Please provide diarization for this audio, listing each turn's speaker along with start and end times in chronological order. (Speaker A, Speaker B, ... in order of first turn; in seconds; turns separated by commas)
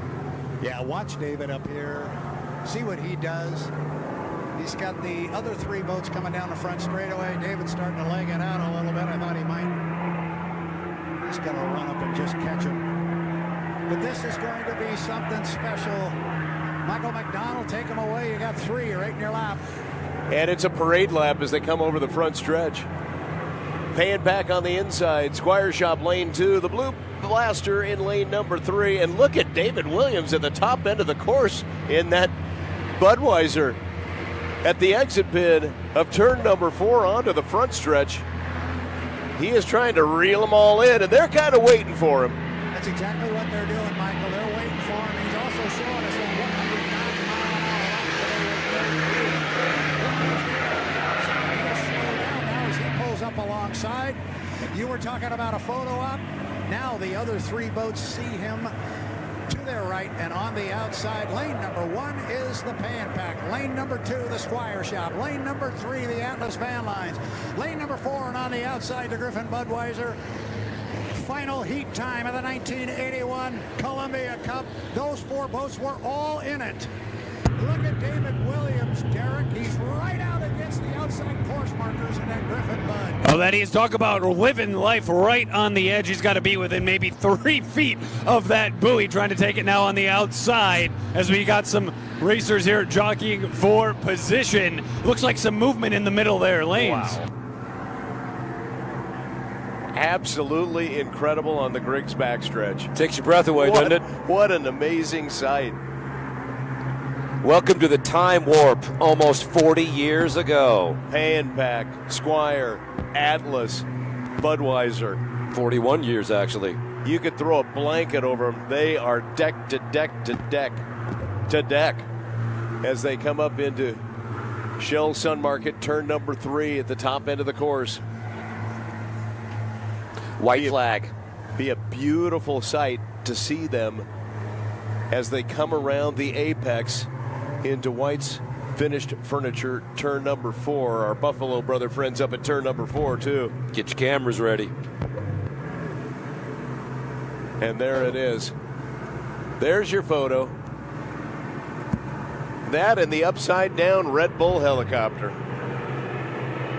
Speaker A: 0.6-3.7, Speaker A: 4.5-9.8, Speaker A: 11.2-12.8, Speaker A: 13.9-16.2, Speaker A: 16.8-19.6, Speaker B: 20.3-22.9, Speaker B: 23.9-32.3, Speaker B: 33.0-33.8, Speaker B: 34.6-38.2, Speaker B: 39.4-42.4, Speaker A: 42.7-54.2, Speaker A: 54.7-58.7, Speaker A: 59.5-70.2, Speaker A: 71.1-76.9, Speaker A: 77.5-83.2, Speaker C: 83.2-97.2, Speaker D: 96.8-97.1, Speaker B: 99.9-102.9, Speaker D: 102.9-104.0, Speaker B: 103.5-105.8, Speaker D: 107.4-111.0, Speaker B: 111.1-113.8, Speaker B: 114.4-115.2, Speaker D: 115.5-116.8, Speaker B: 117.0-120.8, Speaker B: 121.5-122.0, Speaker B: 122.8-124.0, Speaker B: 124.8-128.0, Speaker D: 130.4-131.1, Speaker B: 130.5-130.8, Speaker B: 131.6-134.1, Speaker B: 135.1-137.1, Speaker B: 137.6-143.5, Speaker D: 143.7-144.7, Speaker B: 147.6-148.5, Speaker B: 149.6-150.5, Speaker B: 152.7-155.4